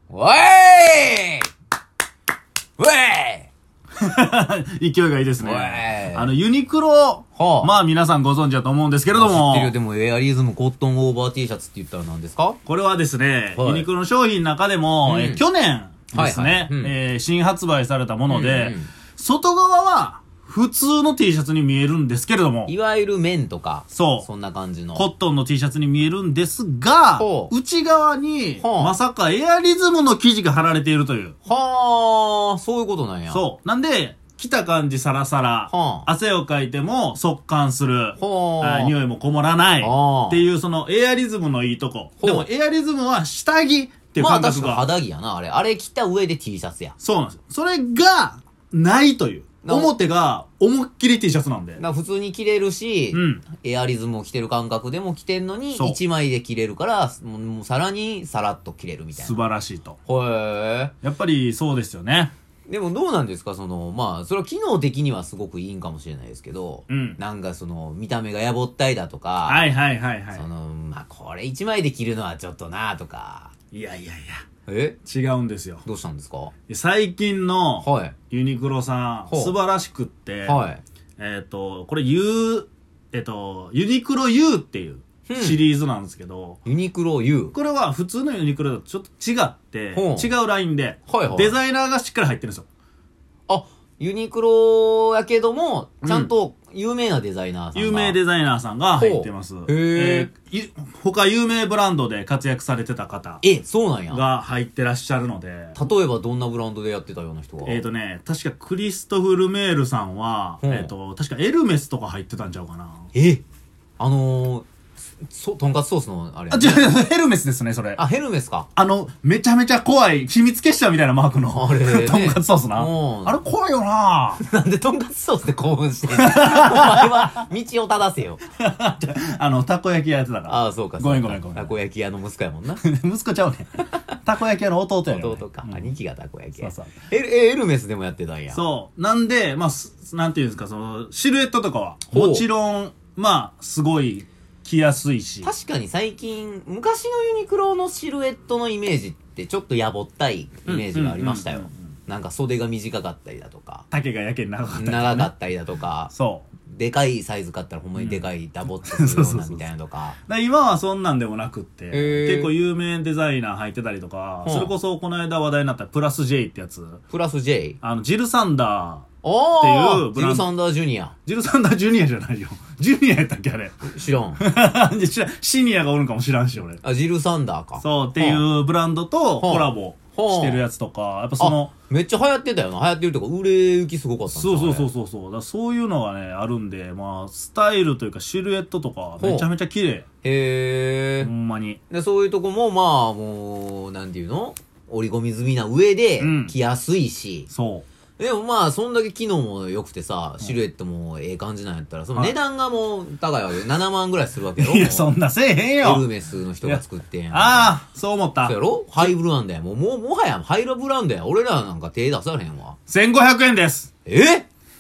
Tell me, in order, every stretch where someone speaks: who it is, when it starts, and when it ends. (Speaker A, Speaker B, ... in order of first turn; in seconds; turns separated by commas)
Speaker A: 0.1-1.5, Speaker A: 2.8-3.5, Speaker B: 4.0-9.8, Speaker A: 5.4-6.3, Speaker A: 7.4-7.7, Speaker A: 9.1-12.6, Speaker B: 12.7-22.7, Speaker A: 13.6-13.9, Speaker A: 15.0-15.4, Speaker A: 16.1-16.9, Speaker A: 18.3-18.9, Speaker A: 22.7-25.1, Speaker B: 23.9-24.3, Speaker B: 24.9-31.4, Speaker A: 27.2-27.5, Speaker A: 28.6-29.0, Speaker A: 31.4-33.4, Speaker B: 33.3-44.9, Speaker A: 35.7-36.1, Speaker A: 38.2-39.0, Speaker A: 39.8-40.4, Speaker A: 42.2-42.5, Speaker A: 44.2-47.0, Speaker B: 47.0-51.8, Speaker A: 49.6-49.9, Speaker A: 51.8-59.4, Speaker B: 53.1-53.5, Speaker B: 59.2-60.0, Speaker A: 60.1-60.9, Speaker B: 61.0-62.3, Speaker A: 62.7-69.7, Speaker B: 66.9-67.2, Speaker B: 69.5-70.5, Speaker A: 70.3-73.5, Speaker B: 73.7-74.4, Speaker A: 74.7-75.0, Speaker B: 75.0-75.8, Speaker A: 75.8-76.5, Speaker B: 76.7-80.6, Speaker A: 77.8-78.2, Speaker A: 79.3-79.6, Speaker A: 80.5-80.8, Speaker B: 81.2-86.6, Speaker A: 85.3-85.6, Speaker A: 86.7-87.5, Speaker B: 87.5-92.7, Speaker A: 89.9-90.3, Speaker A: 91.1-91.6, Speaker A: 93.5-98.2, Speaker B: 96.0-96.3, Speaker B: 97.8-103.4, Speaker A: 99.0-100.3, Speaker A: 103.4-104.2, Speaker B: 104.1-105.8, Speaker A: 105.8-107.8, Speaker B: 107.7-113.1, Speaker A: 110.6-110.9, Speaker A: 113.1-113.4, Speaker A: 114.0-114.7, Speaker A: 115.3-116.8, Speaker B: 116.5-118.0, Speaker A: 118.0-118.7, Speaker B: 118.8-124.4, Speaker A: 121.5-123.5, Speaker A: 124.4-128.4, Speaker B: 126.1-127.3, Speaker B: 128.6-131.7, Speaker A: 130.5-132.8, Speaker B: 132.8-135.9, Speaker A: 135.1-138.6, Speaker B: 136.6-137.0, Speaker B: 138.5-145.5, Speaker A: 142.1-142.4, Speaker A: 145.4-153.9, Speaker B: 150.7-151.8, Speaker B: 153.9-155.3, Speaker A: 154.7-156.1, Speaker B: 156.1-156.5, Speaker A: 156.7-160.2, Speaker B: 158.0-158.2, Speaker B: 158.8-159.7, Speaker B: 160.3-167.0, Speaker A: 161.9-162.5, Speaker A: 164.4-164.7, Speaker A: 167.1-167.8, Speaker B: 167.8-169.1, Speaker A: 169.2-171.2, Speaker B: 169.6-170.5, Speaker B: 171.3-173.9, Speaker A: 173.8-174.4, Speaker B: 174.4-176.8, Speaker A: 176.8-178.4, Speaker B: 177.8-181.7, Speaker A: 179.4-180.6, Speaker A: 181.4-184.9, Speaker B: 184.3-190.1, Speaker A: 189.2-189.5, Speaker A: 190.2-191.3, Speaker B: 191.2-191.8, Speaker A: 191.9-197.5, Speaker B: 196.2-196.6, Speaker B: 197.5-197.8, Speaker A: 198.2-205.1, Speaker B: 204.6-206.1, Speaker A: 205.8-207.8, Speaker B: 206.6-209.1, Speaker A: 208.4-212.8, Speaker B: 212.9-213.9, Speaker A: 214.1-214.5